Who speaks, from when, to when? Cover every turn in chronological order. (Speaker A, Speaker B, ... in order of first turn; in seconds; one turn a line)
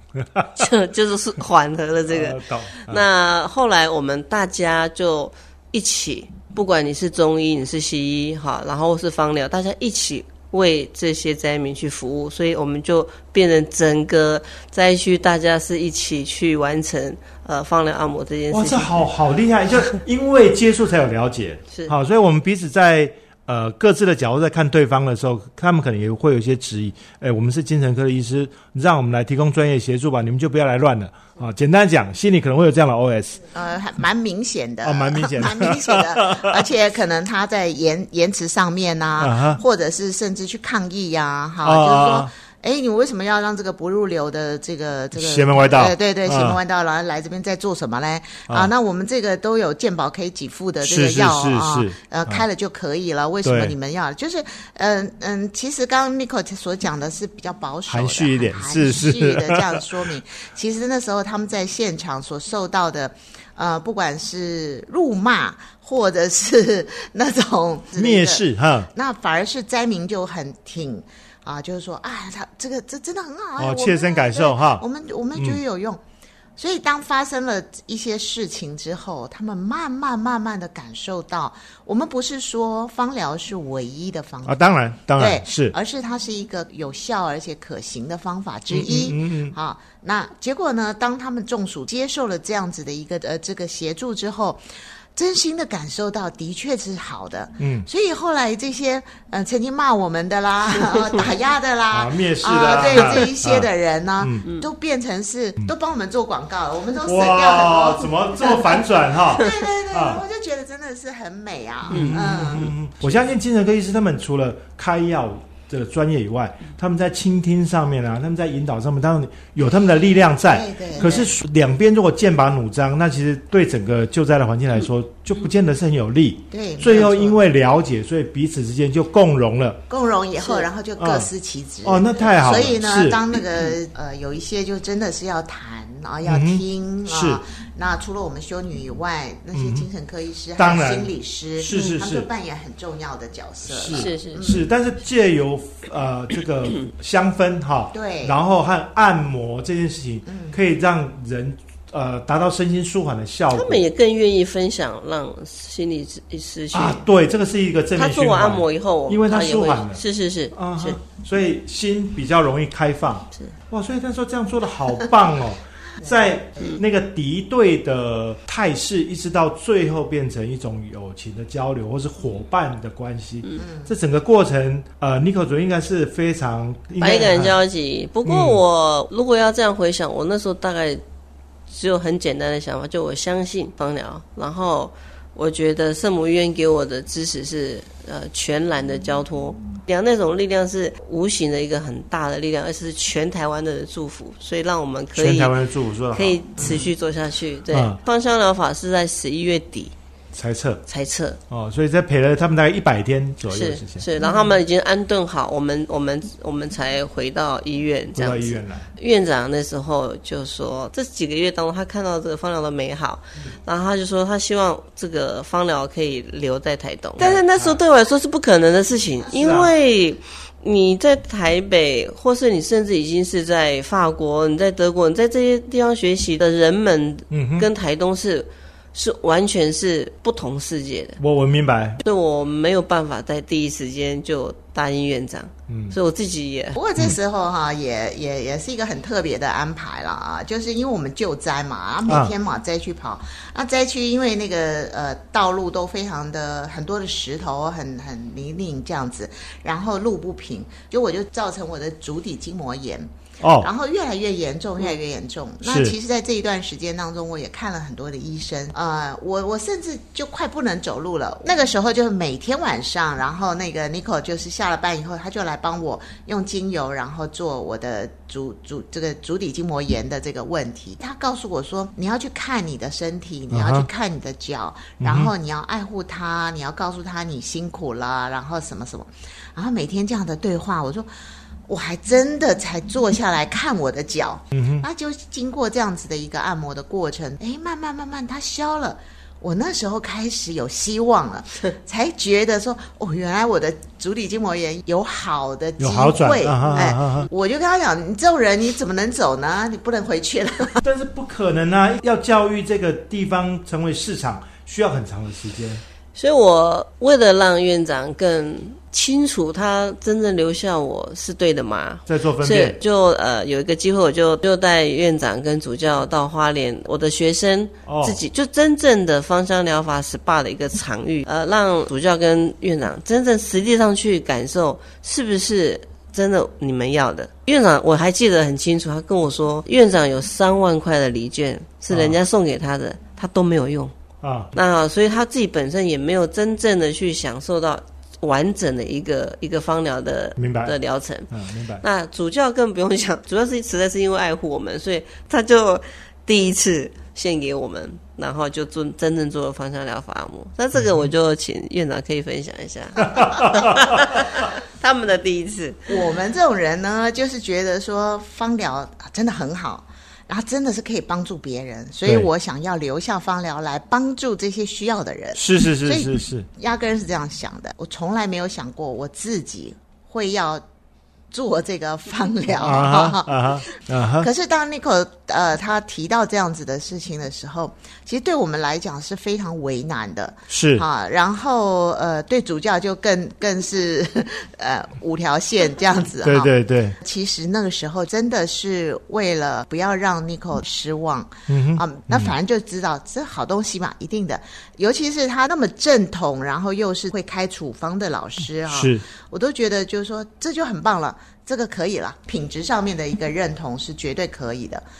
Speaker A: 0.2-0.6
Speaker B: 0.6-18.9
Speaker A: 2.0-3.0
Speaker A: 18.5-33.4
Speaker C: 33.5-76.0
Speaker A: 34.8-36.6
Speaker A: 39.2-39.6
Speaker A: 41.6-42.3
Speaker A: 45.1-46.6
Speaker A: 50.8-52.4
Speaker A: 53.4-53.7
Speaker A: 57.9-59.8
Speaker A: 68.0-68.9
Speaker A: 73.6-74.8
Speaker C: 76.6-84.5
Speaker A: 84.5-85.7
Speaker C: 85.2-94.6
Speaker A: 88.7-89.5
Speaker C: 95.1-112.7
Speaker A: 97.6-97.9
Speaker A: 101.9-104.5
Speaker A: 107.0-110.2
Speaker A: 111.9-129.8
Speaker B: 111.9-112.2
Speaker C: 120.5-121.3
Speaker C: 126.5-127.4
Speaker C: 129.9-144.7
Speaker A: 131.0-131.3
Speaker A: 131.8-133.2
Speaker A: 136.2-137.4
Speaker A: 139.5-139.9
Speaker A: 140.6-142.3
Speaker B: 141.7-142.0
Speaker A: 143.7-153.8
Speaker B: 143.9-144.5
Speaker C: 147.9-148.3
Speaker C: 150.3-150.5
Speaker B: 153.5-157.0
Speaker A: 156.7-160.0
Speaker B: 157.9-161.0
Speaker A: 160.5-177.5
Speaker B: 177.0-181.0
Speaker A: 178.2-178.6
Speaker B: 181.7-195.5
Speaker A: 195.1-196.8
Speaker B: 196.1-199.9
Speaker C: 196.6-196.9
Speaker A: 197.7-198.0
Speaker A: 200.3-200.8
Speaker B: 200.9-201.4
Speaker A: 201.5-204.0
Speaker B: 203.5-231.2
Speaker C: 204.2-204.6
Speaker A: 208.1-208.9
Speaker A: 217.2-217.8
Speaker A: 219.3-219.7
Speaker A: 227.3-227.7
Speaker A: 231.2-232.0
Speaker B: 232.0-236.8
Speaker A: 235.7-235.9
Speaker C: 236.7-281.1
Speaker A: 242.1-242.3
Speaker A: 253.4-253.7
Speaker A: 255.6-255.9
Speaker A: 273.5-273.9
Speaker A: 275.0-275.3
Speaker C: 281.7-300.8
Speaker A: 284.5-284.8
Speaker A: 295.8-297.3
Speaker A: 300.8-305.8
Speaker B: 306.1-333.9
Speaker A: 312.1-312.8
Speaker A: 317.8-318.2
Speaker A: 331.9-332.2
Speaker A: 334.2-334.5
Speaker B: 334.5-355.9
Speaker A: 340.4-340.8
Speaker A: 341.3-341.8
Speaker A: 353.2-353.6
Speaker C: 355.9-370.6
Speaker A: 365.4-366.5
Speaker C: 371.3-373.6
Speaker A: 372.6-374.3
Speaker C: 374.2-404.8
Speaker A: 380.5-380.8
Speaker A: 386.2-387.0
Speaker A: 391.5-392.3
Speaker A: 398.6-399.0